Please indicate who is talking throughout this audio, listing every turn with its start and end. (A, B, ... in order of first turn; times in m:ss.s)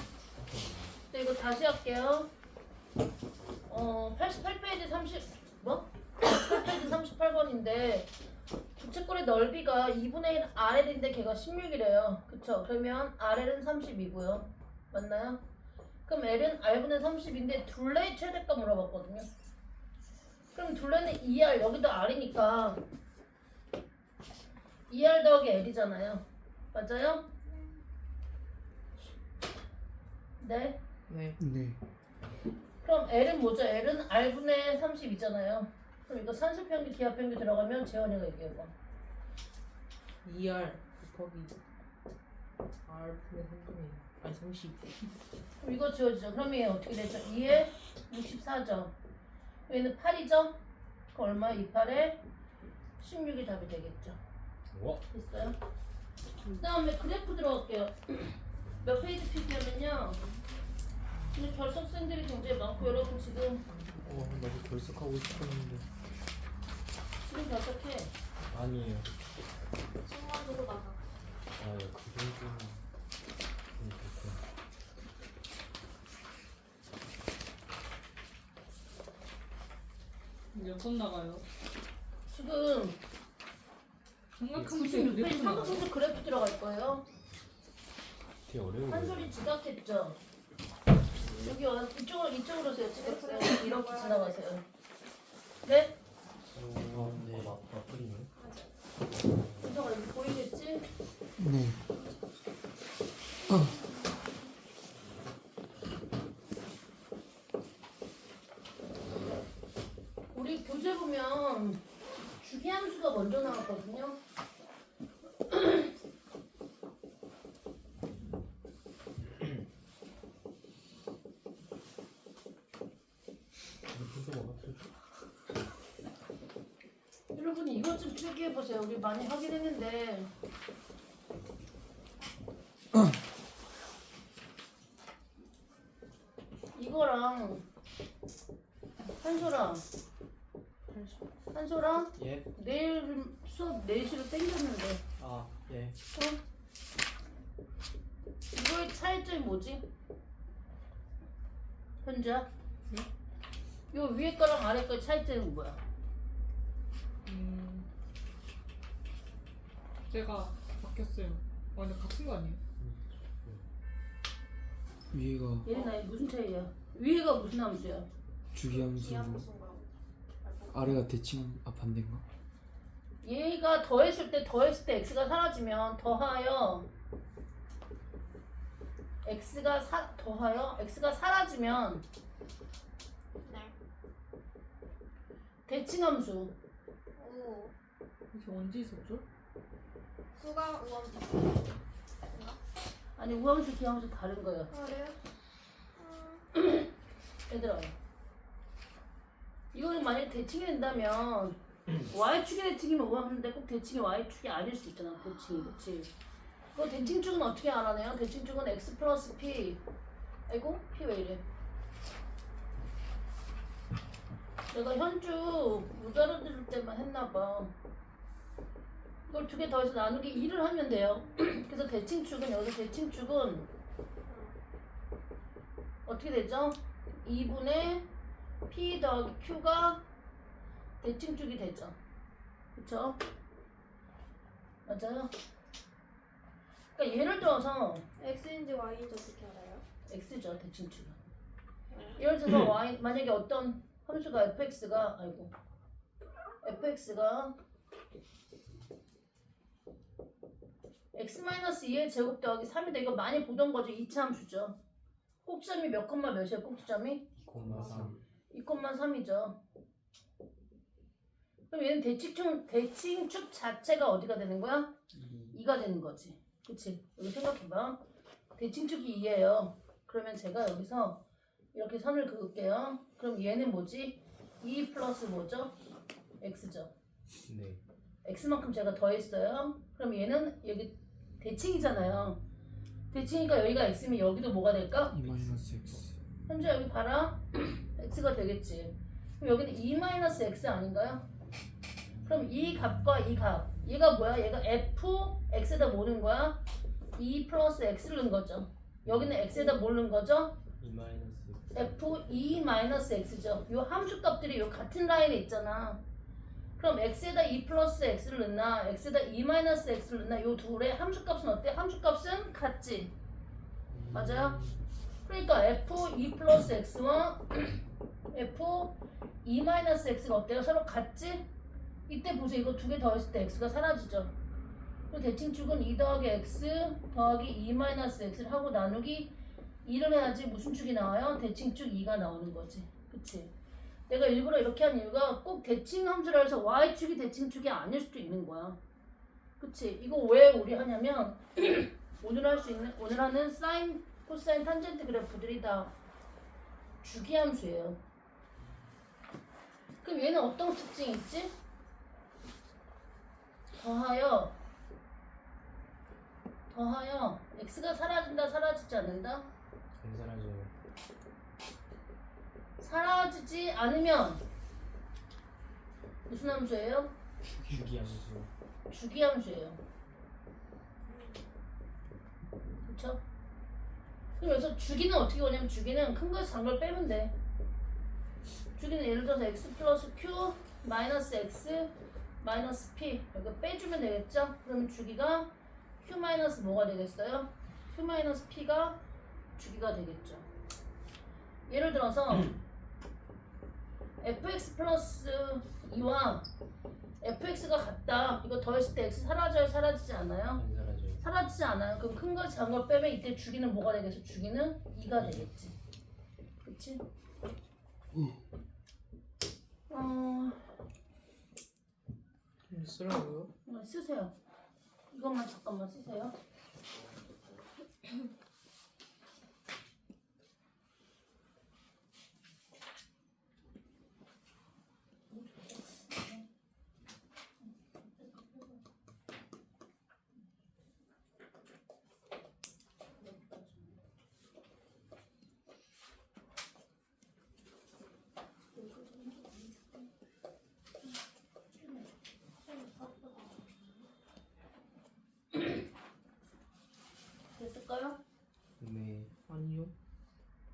0:00.4-0:01.0 A
0:01.1-0:02.3 B
0:03.7-0:08.1 B
0:08.8-0:15.4 B
0:16.0-0:19.3 B
0:20.5-0:22.8 B
0:24.9-0:27.3 B
0:30.4-0:30.8 B
0:31.1-0:31.4 C
0:31.4-0:31.8 D
0:32.8-0:38.7 B
0:40.2-0:41.6 C
0:42.8-0:44.9 C
0:45.6-0:48.9 B
0:49.7-0:50.6 B
0:51.1-0:52.2 B
0:53.0-0:54.2 B
0:54.7-0:55.0 A
0:55.1-0:55.6 B
0:56.6-1:00.2 B
1:01.3-1:03.6 B
1:03.7-1:04.1 C
1:04.0-1:05.8 A
1:07.3-1:08.1 B
1:08.5-1:09.1 A
1:10.0-1:11.0 E
1:11.6-1:12.8 A
1:13.8-1:14.4 A
1:20.5-1:21.4 F
1:22.3-1:23.0 B
1:24.4-1:25.9 F
1:24.6-1:27.0 B
1:28.4-1:29.4 A
1:28.9-1:30.2 B
1:31.2-1:31.6 A
1:31.4-1:34.6 B
1:32.9-1:34.4 E
1:35.6-1:35.9 B
1:36.4-1:38.3 A
1:36.9-1:37.5 D
1:38.4-1:38.8 E
1:39.2-1:39.7 A
1:39.6-1:40.8 B
1:41.4-1:41.8 D
1:43.5-1:43.8 D
1:43.5-1:44.4 E
1:50.3-1:51.8 B
1:52.4-1:54.2 B
1:55.5-1:55.9 B
2:03.9-2:04.9 A
2:07.3-2:10.3 B
2:16.7-2:17.6 B
2:19.2-2:19.8 B
2:20.9-2:21.2 C
2:21.5-2:25.0 B
2:22.1-2:22.5 A
2:25.2-2:26.0 A
2:28.5-2:29.8 B
2:32.0-2:32.5 B
2:33.9-2:35.8 B
2:37.3-2:37.8 F
2:37.3-2:37.8 C
2:40.1-2:42.6 F
2:42.8-2:43.6 A
2:45.1-2:45.7 D
2:45.6-2:48.1 B
2:48.5-2:49.4 D
2:48.6-2:51.1 E
2:50.7-2:52.2 D
2:53.2-2:56.9 B
2:59.2-3:02.0 B
3:03.4-3:03.7 E
3:05.7-3:06.5 B
3:07.2-3:07.7 E
3:08.3-3:09.2 F
3:10.4-3:12.6 E
3:13.2-3:14.7 B
3:14.7-3:15.2 E
3:16.0-3:16.4 E
3:16.5-3:16.9 B
3:17.5-3:17.9 B
3:19.7-3:21.6 B
3:22.1-3:26.1 B
3:26.7-3:29.8 B
3:30.5-3:31.4 B
3:34.7-3:37.7 B
3:39.3-3:43.7 B
3:44.2-3:44.6 E
3:46.0-3:48.0 B
3:48.7-3:50.0 B
3:51.0-3:52.0 B
3:52.7-3:53.2 B
3:54.8-3:55.3 B
3:57.0-3:58.0 B
3:58.2-3:59.8 E
4:00.1-4:01.2 B
4:01.9-4:02.2 E
4:02.2-4:05.5 B
4:06.6-4:07.5 B
4:11.1-4:14.8 B
4:15.4-4:17.2 B
4:17.4-4:18.2 A
4:18.5-4:19.6 B
4:21.7-4:24.9 B
4:25.1-4:25.5 A
4:25.5-4:28.0 B
4:28.6-4:31.2 B
4:31.7-4:35.7 B
4:36.4-4:36.9 B
4:37.4-4:37.8 A
4:38.2-4:42.4 B
4:43.1-4:45.1 B
4:45.1-4:46.2 D
4:46.5-4:51.2 B
4:52.2-4:56.6 B
4:57.1-5:00.5 B
4:59.0-4:59.4 A
5:00.8-5:01.8 A
5:01.7-5:06.0 B
5:06.8-5:13.1 B
5:13.9-5:14.8 A
5:14.1-5:14.6 B
5:15.2-5:21.4 B
5:22.1-5:24.3 B
5:25.1-5:33.5 B
5:34.1-5:38.8 B
5:39.6-5:45.9 B
5:47.0-5:48.0 B
5:50.0-5:51.5 B
5:53.7-5:54.5 B
5:56.7-5:59.5 B
6:00.0-6:00.7 A
6:02.8-6:04.4 B
6:06.3-6:07.1 B
6:07.6-6:08.2 D
6:07.7-6:08.5 A
6:08.9-6:09.8 B
6:11.1-6:11.4 E
6:12.8-6:13.2 B
6:14.4-6:17.3 B
6:18.8-6:29.0 B
6:29.6-6:30.4 B
6:31.7-6:32.6 B
6:34.2-6:36.4 B
6:37.2-6:40.6 B
6:40.5-6:41.2 A
6:41.2-6:45.7 B
6:45.2-6:45.5 A
6:46.6-6:47.0 B
6:49.9-6:50.6 B
6:52.7-6:53.5 C
6:53.6-6:54.3 B
6:55.1-6:56.3 B
7:05.3-7:06.4 B
7:08.2-7:08.6 B
7:13.2-7:13.9 B
7:18.7-7:19.7 E
7:22.7-7:23.8 E
7:27.6-7:28.2 B
7:28.8-7:29.3 A
7:29.5-7:29.9 C